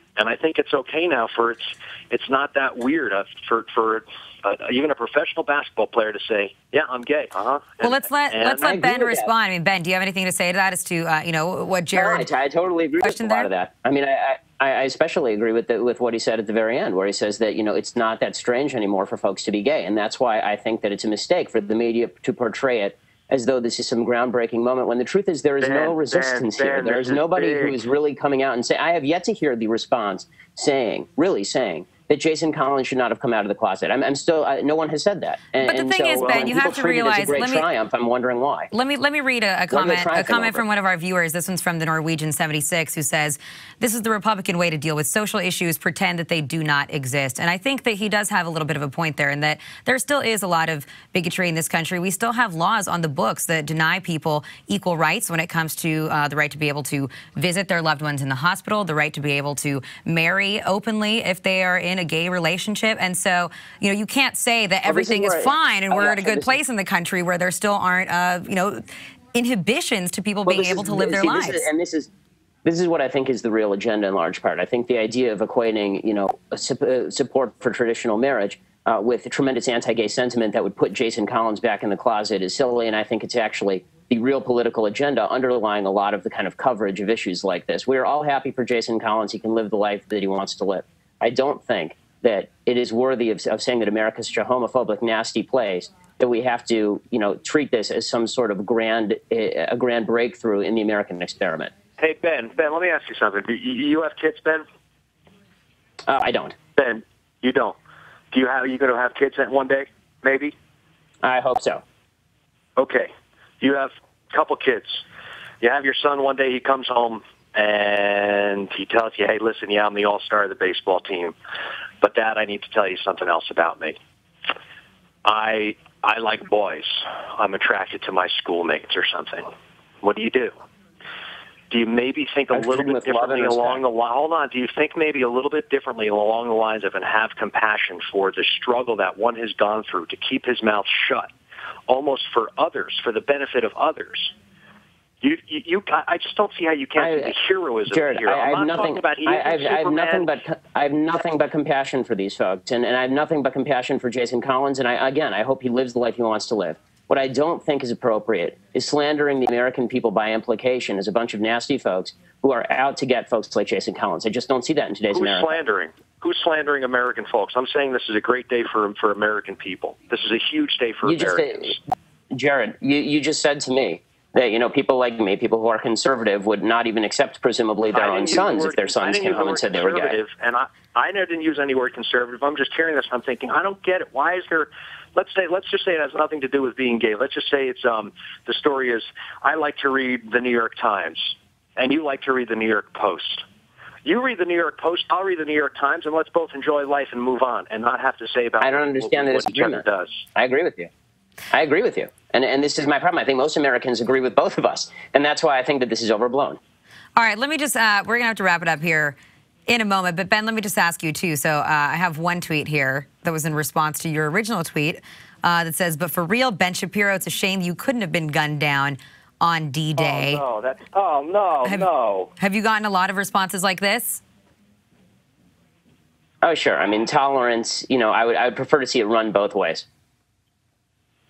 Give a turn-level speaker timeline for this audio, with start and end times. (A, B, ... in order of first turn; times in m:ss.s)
0:00.2-0:08.7 A
0:07.8-0:12.3 B
0:08.5-0:09.3 C
0:11.9-0:38.7 C
0:13.0-0:13.5 B
0:25.6-0:27.8 A
0:35.6-0:37.6 B
0:36.2-0:36.6 A
0:38.7-1:11.7 B
0:39.7-0:40.6 C
1:04.8-1:06.6 C
1:10.4-1:12.1 C
1:12.6-1:41.7 C
1:42.0-1:44.6 A
1:46.1-1:46.6 C
1:46.8-1:47.8 A
1:48.3-1:50.5 A
1:51.2-1:51.8 C
1:52.8-1:53.1 A
1:53.6-1:55.0 A
1:55.6-2:01.3 A
2:02.0-2:04.0 A
2:05.2-2:09.5 A
2:10.0-2:10.5 A
2:11.7-2:21.3 A
2:12.5-2:13.8 C
2:21.9-2:24.3 A
2:25.2-2:30.4 A
2:27.0-2:27.3 C
2:27.9-2:45.6 C
2:45.1-2:51.8 A
2:51.0-2:51.8 C
2:52.3-3:00.2 C
2:57.9-3:13.4 A
3:14.0-3:20.2 A
3:18.6-3:19.8 C
3:20.4-3:20.9 C
3:21.5-3:26.6 C
3:27.2-3:29.2 B
3:29.7-3:40.4 B
3:40.0-3:42.3 A
3:42.4-3:44.2 B
3:46.4-3:49.8 C